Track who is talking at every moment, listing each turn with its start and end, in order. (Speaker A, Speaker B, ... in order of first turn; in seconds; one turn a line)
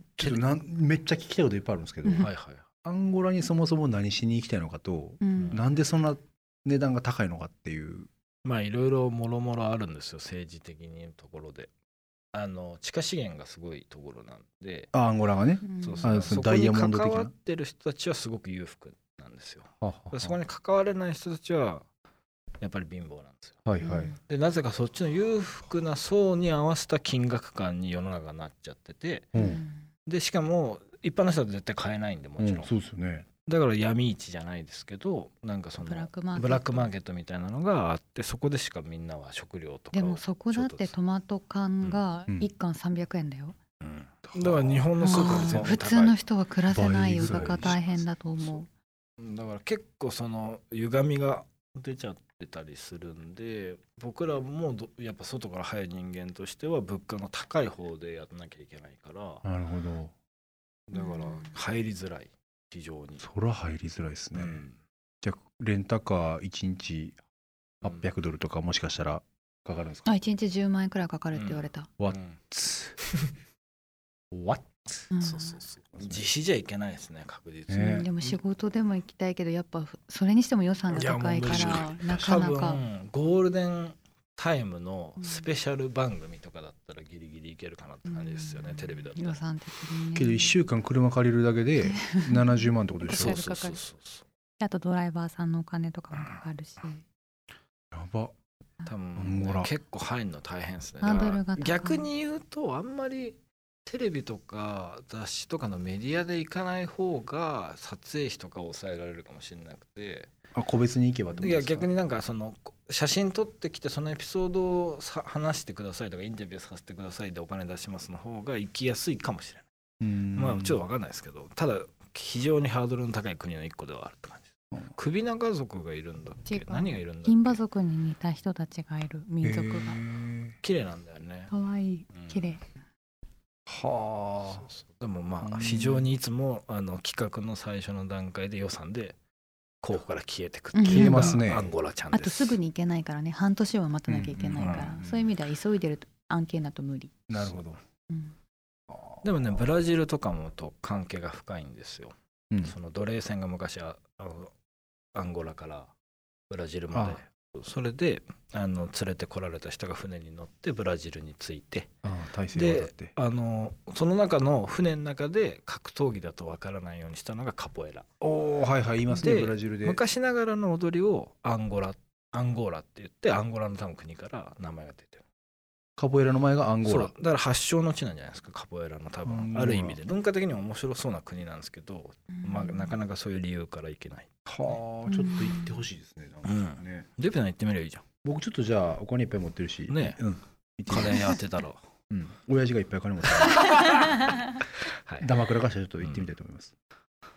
Speaker A: 0.2-2.3
Speaker B: 2.2-2.7
Speaker A: 2.8-8.1
Speaker C: 5.2-5.6
Speaker B: 5.4-5.6
Speaker B: 8.4-11.7
Speaker B: 12.3-14.9
Speaker A: 14.9-17.3
Speaker C: 15.6-16.1
Speaker B: 15.8-21.8
Speaker A: 19.8-20.4
Speaker B: 22.6-23.6
Speaker A: 23.7-24.2
Speaker C: 23.8-24.2
Speaker B: 24.3-29.3
Speaker A: 29.3-29.6
Speaker C: 29.4-29.9
Speaker B: 30.1-32.7
Speaker A: 32.4-33.3
Speaker B: 33.5-41.0
Speaker C: 35.8-36.9
Speaker C: 39.9-43.6
Speaker B: 43.8-46.2
Speaker A: 44.3-45.8
Speaker C: 45.0-48.7
Speaker A: 46.7-47.8
Speaker B: 47.2-48.0
Speaker B: 49.2-59.4
Speaker A: 59.4-60.1
Speaker B: 60.9-63.2
Speaker C: 61.0-61.5
Speaker A: 63.2-64.6
Speaker B: 64.3-64.8
Speaker A: 65.2-67.2
Speaker B: 67.8-68.1
Speaker A: 67.8-70.1
Speaker C: 70.0-71.9
Speaker B: 71.3-72.4
Speaker A: 72.0-73.0
Speaker A: 74.3-75.1
Speaker C: 75.1-75.6
Speaker B: 75.2-78.4
Speaker A: 76.0-76.3
Speaker A: 77.7-78.1
Speaker C: 77.7-82.8
Speaker B: 80.9-89.4
Speaker C: 85.2-85.5
Speaker C: 88.1-90.5
Speaker A: 90.2-93.4
Speaker C: 91.8-93.8
Speaker B: 93.1-94.2
Speaker C: 94.6-97.0
Speaker A: 97.9-98.3
Speaker B: 98.9-110.3
Speaker A: 99.2-99.7
Speaker C: 101.0-102.1
Speaker A: 110.5-111.9
Speaker B: 111.4-119.7
Speaker A: 120.0-120.8
Speaker B: 120.4-127.6
Speaker C: 126.5-130.0
Speaker A: 129.4-130.6
Speaker B: 130.6-131.5
Speaker C: 131.5-132.7
Speaker B: 132.1-132.6
Speaker A: 133.7-134.7
Speaker B: 134.4-139.2
Speaker A: 135.4-136.1
Speaker B: 139.8-142.6
Speaker C: 140.7-141.4
Speaker A: 140.9-141.7
Speaker C: 142.1-147.1
Speaker A: 144.1-145.3
Speaker B: 144.6-144.9
Speaker A: 147.3-147.8
Speaker C: 148.1-148.3
Speaker A: 148.9-149.2
Speaker B: 149.2-154.5
Speaker B: 155.2-155.9
Speaker B: 156.5-161.9
Speaker A: 156.9-157.2
Speaker A: 162.0-163.2
Speaker B: 162.5-168.1
Speaker A: 168.2-170.0
Speaker B: 169.1-175.2
Speaker A: 176.0-177.1
Speaker B: 176.8-184.8
Speaker A: 179.2-180.0
Speaker C: 182.3-183.0
Speaker A: 184.5-187.1
Speaker C: 185.1-185.8
Speaker B: 186.4-188.0
Speaker A: 188.2-191.4
Speaker B: 189.9-190.2
Speaker B: 190.9-191.8
Speaker A: 192.1-194.0
Speaker B: 193.4-194.3
Speaker A: 195.2-196.7
Speaker B: 196.0-196.3